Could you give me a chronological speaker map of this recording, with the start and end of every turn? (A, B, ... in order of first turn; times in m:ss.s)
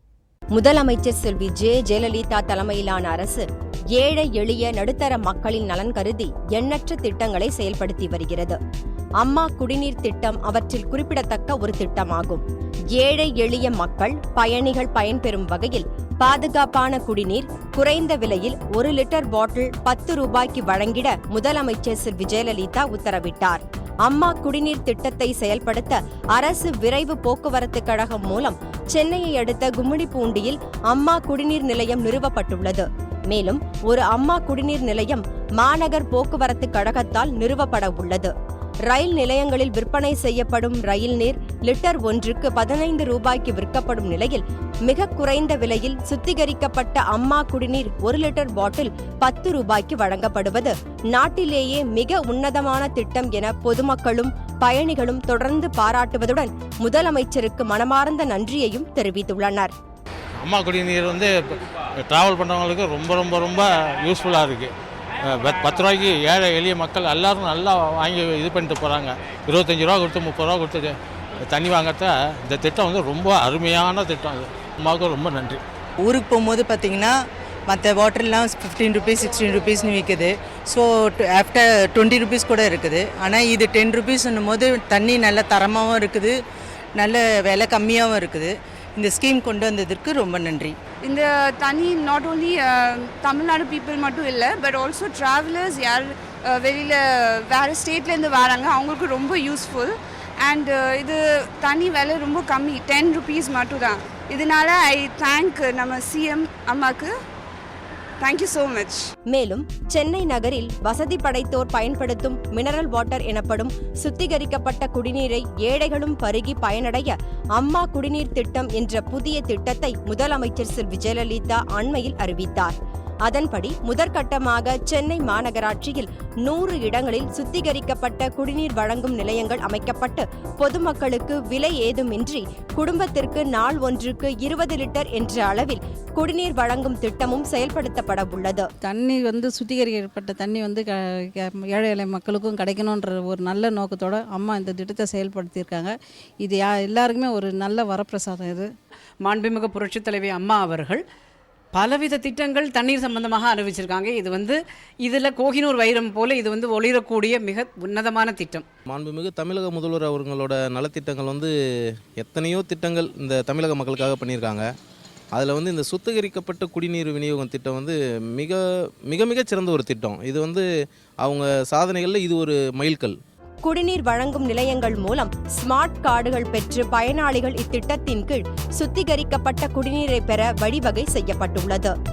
0:00.5-0:08.6 A
0:09.2-0:12.4 A
0:13.0-0:38.3 A
0:38.9-0:59.7 A
1:00.4-1:04.7 B
1:05.2-1:15.6 B
1:16.0-1:17.2 C
1:17.7-1:26.4 C
1:27.0-1:30.8 C
1:31.0-1:47.1 D
1:48.2-1:49.0 D
1:49.3-2:02.7 A
2:03.3-2:18.7 A
2:18.8-2:28.7 E
2:29.2-2:31.0 F
2:31.8-2:38.6 F
2:38.9-2:41.5 G
2:42.2-2:44.7 G
2:45.4-2:50.6 G
2:51.2-2:53.2 G
2:53.6-3:01.9 A